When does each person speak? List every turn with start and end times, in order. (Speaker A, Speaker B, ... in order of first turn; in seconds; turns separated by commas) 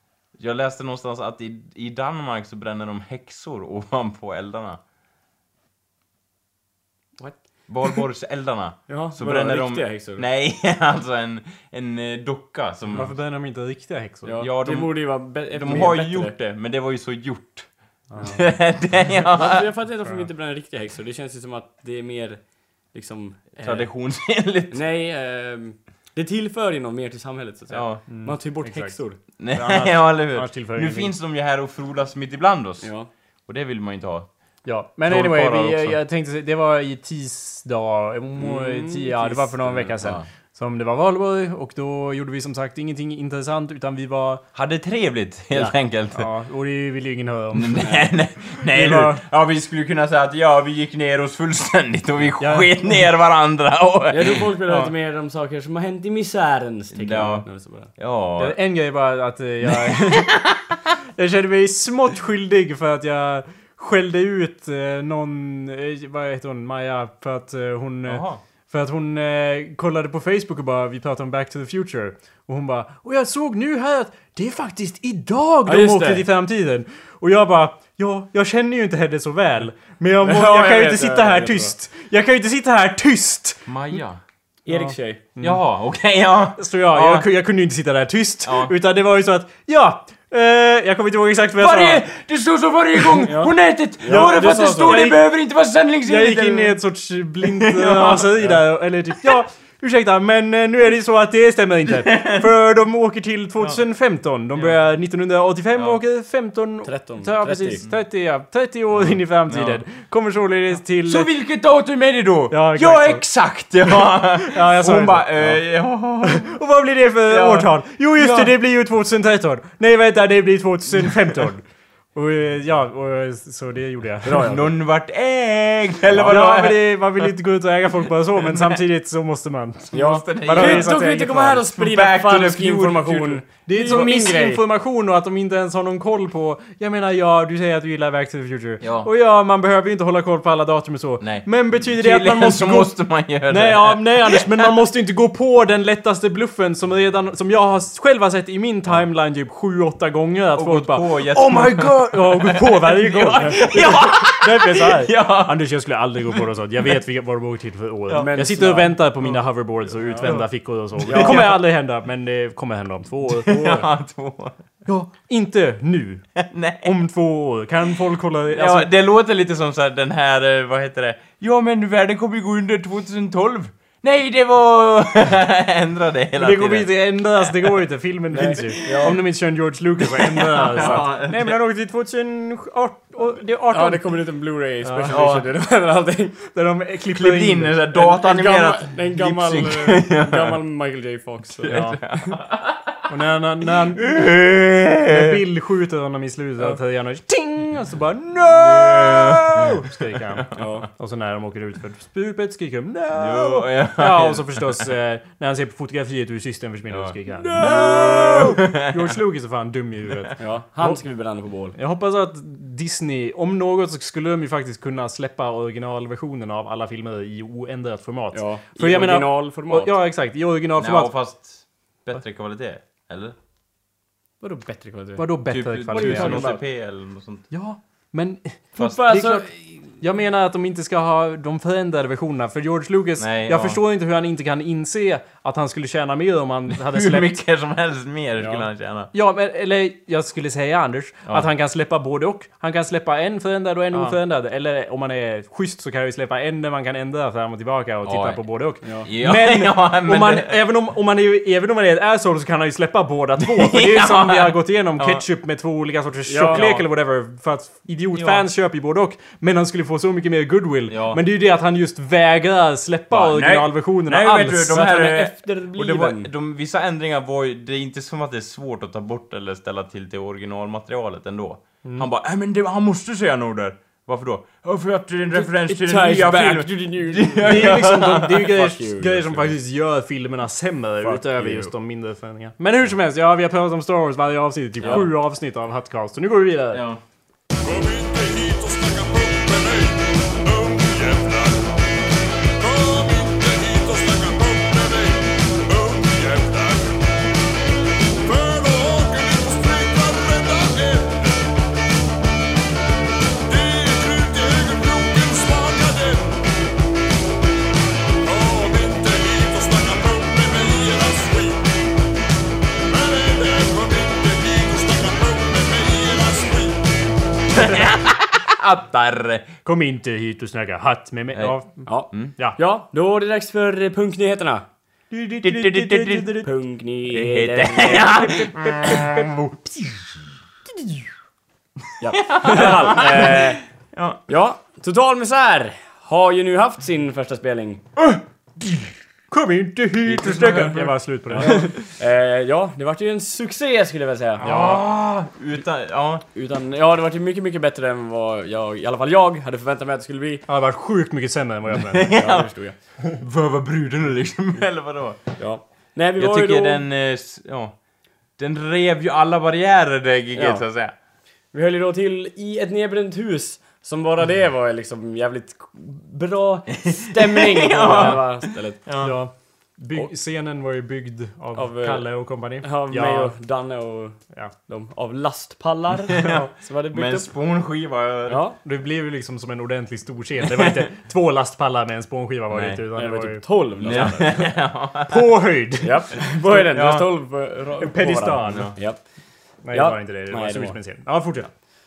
Speaker A: 0.4-4.8, Speaker A: 7.7-13.1, Speaker B: 8.9-10.2, Speaker C: 12.9-14.3, Speaker B: 14.2-16.3, Speaker A: 14.4-17.7, Speaker C: 18.1-18.4, Speaker A: 18.2-19.6, Speaker B: 19.3-22.4, Speaker B: 22.9-23.9, Speaker A: 23.6-24.8, Speaker B: 24.7-29.2, Speaker A: 27.7-28.0, Speaker C: 28.1-31.1, Speaker A: 29.4-32.9, Speaker B: 32.8-33.1, Speaker A: 33.5-34.3, Speaker C: 34.6-44.4, Speaker A: 35.0-36.0, Speaker B: 38.4-39.9, Speaker A: 40.0-40.2, Speaker A: 44.5-46.3, Speaker C: 45.5-47.9, Speaker A: 47.5-54.9, Speaker B: 47.8-48.1, Speaker C: 48.6-49.2, Speaker C: 52.4-52.7, Speaker B: 54.1-57.9, Speaker A: 56.9-58.6, Speaker C: 58.4-60.3, Speaker A: 59.8-60.6, Speaker C: 61.2-83.7, Speaker A: 68.0-68.4, Speaker B: 75.7-76.2, Speaker B: 80.2-81.7, Speaker A: 83.7-84.2, Speaker B: 84.7-85.2, Speaker C: 84.7-85.6, Speaker A: 85.4-87.3, Speaker C: 86.6-92.0, Speaker A: 88.4-88.7, Speaker A: 91.6-96.8, Speaker B: 94.0-95.1, Speaker C: 94.0-95.2, Speaker C: 96.0-111.3, Speaker A: 97.4-98.5, Speaker A: 101.9-102.4, Speaker B: 106.8-107.8, Speaker A: 109.0-109.8, Speaker A: 111.0-116.5, Speaker C: 112.5-113.2, Speaker C: 114.2-115.6, Speaker C: 116.2-121.6, Speaker A: 117.3-118.5, Speaker C: 122.1-124.5, Speaker B: 124.2-124.7, Speaker A: 124.4-127.0, Speaker C: 126.2-131.6, Speaker A: 128.5-128.8, Speaker A: 129.9-131.0, Speaker B: 129.9-134.6, Speaker A: 131.7-134.1, Speaker C: 133.7-163.6, Speaker A: 138.8-139.1, Speaker A: 141.2-144.7, Speaker A: 150.5-155.6, Speaker B: 158.2-159.0, Speaker B: 160.1-160.4, Speaker A: 160.2-161.6, Speaker B: 161.0-161.5, Speaker A: 163.4-164.6, Speaker B: 163.5-163.8, Speaker C: 164.8-166.2, Speaker A: 166.3-166.9, Speaker C: 166.8-168.9, Speaker A: 168.5-177.8, Speaker C: 176.4-184.1, Speaker B: 178.3-179.2, Speaker A: 178.6-179.1, Speaker A: 180.0-181.6, Speaker B: 183.7-186.4, Speaker C: 184.8-185.2, Speaker A: 185.1-185.5, Speaker C: 186.5-187.8, Speaker A: 187.1-190.6, Speaker B: 187.9-192.3, Speaker A: 191.6-192.9, Speaker C: 191.6-192.0, Speaker C: 193.1-194.3, Speaker A: 193.9-195.4, Speaker C: 195.0-211.0, Speaker A: 198.4-199.8, Speaker B: 200.6-200.9, Speaker A: 203.1-204.8, Speaker A: 206.9-209.1, Speaker B: 207.4-208.4, Speaker B: 210.4-211.8, Speaker C: 211.8-221.1, Speaker B: 218.3-220.0, Speaker A: 220.8-223.3, Speaker B: 224.4-225.3, Speaker C: 225.2-226.5, Speaker A: 225.5-227.4, Speaker B: 225.9-226.6, Speaker C: 227.5-237.4, Speaker B: 228.8-229.5, Speaker A: 233.2-233.8, Speaker A: 236.7-239.1, Speaker B: 238.4-238.6, Speaker C: 239.1-264.9, Speaker A: 243.9-244.2, Speaker A: 248.0-248.4, Speaker A: 249.0-250.5, Speaker A: 253.4-255.2, Speaker B: 256.3-256.9, Speaker A: 258.1-258.4, Speaker A: 260.9-261.2, Speaker A: 263.1-278.5, Speaker B: 264.7-266.3, Speaker B: 275.3-279.6, Speaker C: 277.4-286.9, Speaker B: 281.0-281.7, Speaker A: 284.8-285.1, Speaker B: 284.8-285.1, Speaker A: 286.7-287.0, Speaker D: 287.6-291.7, Speaker D: 292.6-297.0, Speaker D: 298.2-301.3, Speaker D: 303.5-306.4, Speaker D: 308.2-311.6, Speaker D: 312.9-316.9, Speaker A: 317.5-319.5, Speaker C: 319.6-322.6, Speaker A: 321.3-321.6, Speaker B: 321.9-324.6, Speaker C: 325.1-326.5, Speaker A: 325.4-326.3, Speaker B: 326.4-328.3, Speaker A: 327.1-329.4, Speaker B: 332.0-333.6, Speaker A: 332.2-334.2, Speaker B: 334.3-337.8, Speaker C: 339.3-341.7, Speaker A: 340.1-340.8, Speaker B: 340.3-344.5, Speaker A: 344.4-346.2, Speaker C: 344.4-344.8, Speaker B: 346.3-350.4, Speaker C: 350.5-352.1, Speaker A: 351.9-352.5, Speaker B: 352.1-352.7, Speaker A: 353.2-355.2, Speaker B: 355.4-356.8, Speaker A: 356.2-357.8, Speaker A: 358.4-360.9, Speaker B: 360.3-360.6, Speaker B: 361.5-368.8, Speaker A: 366.9-369.1, Speaker C: 367.9-368.1, Speaker C: 369.0-373.3, Speaker B: 371.5-372.1, Speaker B: 372.6-374.2, Speaker B: 374.7-377.3, Speaker A: 376.2-378.4, Speaker B: 378.3-378.6, Speaker C: 378.6-384.5, Speaker A: 380.5-380.8, Speaker A: 382.5-382.8, Speaker B: 382.9-384.3, Speaker A: 383.8-385.3, Speaker C: 385.1-385.9, Speaker B: 385.8-389.0, Speaker A: 386.6-387.1, Speaker C: 387.8-388.7, Speaker A: 388.4-388.8, Speaker C: 389.6-391.5, Speaker B: 389.7-390.8